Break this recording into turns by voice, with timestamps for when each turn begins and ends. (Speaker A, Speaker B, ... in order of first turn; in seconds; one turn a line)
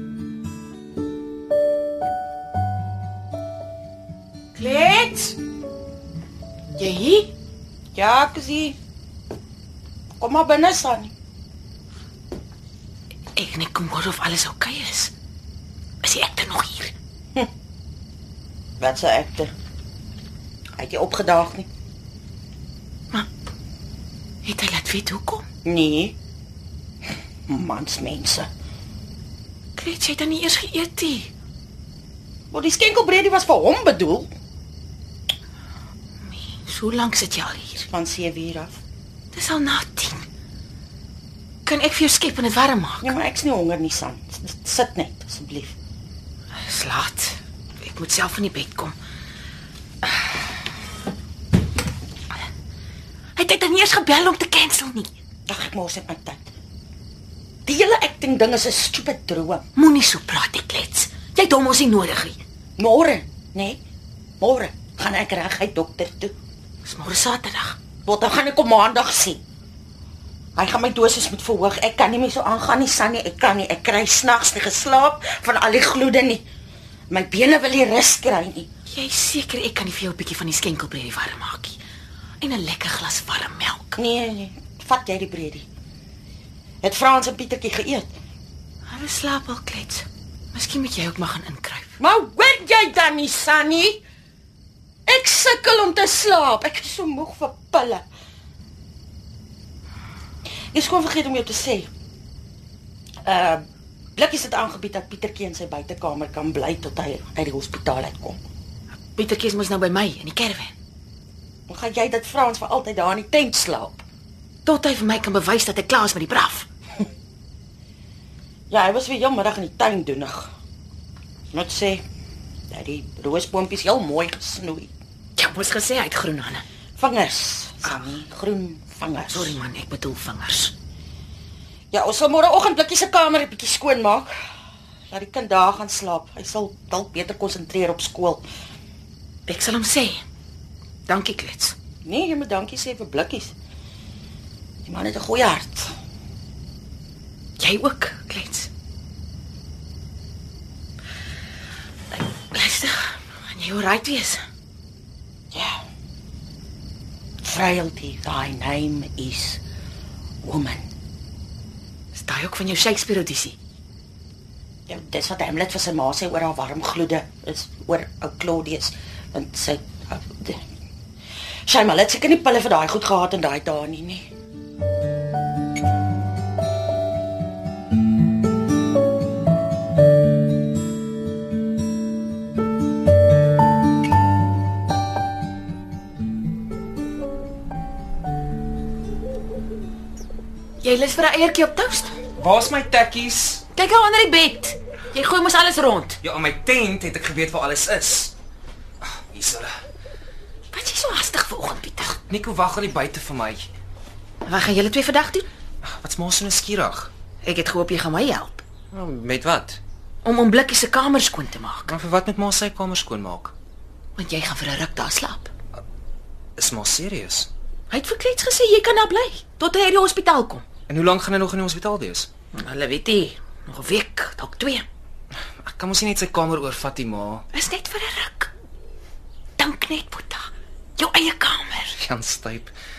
Speaker A: 4.5-5.4
Speaker A: 6.8-7.3
Speaker B: 8.0-8.8
Speaker B: 10.2-11.1
Speaker A: 13.3-15.1
Speaker A: 16.0-16.9
Speaker B: 18.8-19.5
Speaker B: 20.8-21.7
Speaker A: 24.4-25.4
Speaker B: 25.6-26.2
Speaker B: 27.5-28.5
Speaker A: 29.8-31.3
Speaker B: 32.5-34.3
Speaker A: 36.2-37.8
Speaker B: 37.7-38.8
Speaker A: 39.3-40.3
Speaker A: 41.6-43.2
Speaker B: 43.0-45.8
Speaker A: 46.6-49.0
Speaker A: 53.4-55.1
Speaker B: 55.5-56.5
Speaker B: 57.6-59.6
Speaker A: 59.8-62.4
Speaker B: 62.8-63.8
Speaker B: 64.4-66.3
Speaker A: 66.8-67.8
Speaker B: 68.0-69.4
Speaker B: 70.6-76.5
Speaker B: 77.1-78.7
Speaker A: 78.9-81.8
Speaker A: 82.4-84.0
Speaker B: 84.0-85.7
Speaker B: 86.8-88.1
Speaker A: 88.9-92.0
Speaker B: 92.0-94.0
Speaker B: 95.1-98.0
Speaker B: 100.7-101.9
Speaker B: 103.2-108.4
Speaker A: 109.1-110.7
Speaker B: 111.7-114.0
Speaker A: 114.7-116.7
Speaker B: 118.7-120.5
Speaker B: 121.5-122.0
Speaker B: 122.7-124.9
Speaker A: 125.4-126.6
Speaker B: 127.0-129.6
Speaker A: 129.3-130.7
Speaker B: 131.9-134.3
Speaker B: 135.1-138.4
Speaker A: 139.5-140.2
Speaker A: 141.1-141.8
Speaker B: 142.0-143.5
Speaker B: 144.8-145.9
Speaker A: 147.6-148.7
Speaker A: 152.1-154.4
Speaker B: 155.5-155.8
Speaker B: 157.4-159.6
Speaker B: 160.4-160.9
Speaker A: 162.1-163.6
Speaker B: 164.9-170.6
Speaker B: 171.7-174.3
Speaker A: 190.8-192.2
Speaker C: 192.4-193.6
Speaker A: 193.7-196.2
Speaker C: 196.2-198.3
Speaker C: 199.0-199.7
Speaker A: 200.7-202.2
Speaker C: 202.3-203.7
Speaker A: 204.4-205.5
Speaker C: 205.8-207.1
Speaker A: 207.4-208.6
Speaker C: 208.9-209.8
Speaker A: 210.2-211.9
Speaker C: 211.9-213.5
Speaker A: 214.2-215.5
Speaker C: 216.6-217.5
Speaker A: 217.9-220.7
Speaker C: 220.9-222.3
Speaker A: 222.5-224.9
Speaker C: 225.6-227.4
Speaker A: 227.5-228.5
Speaker A: 229.6-232.0
Speaker C: 232.0-232.7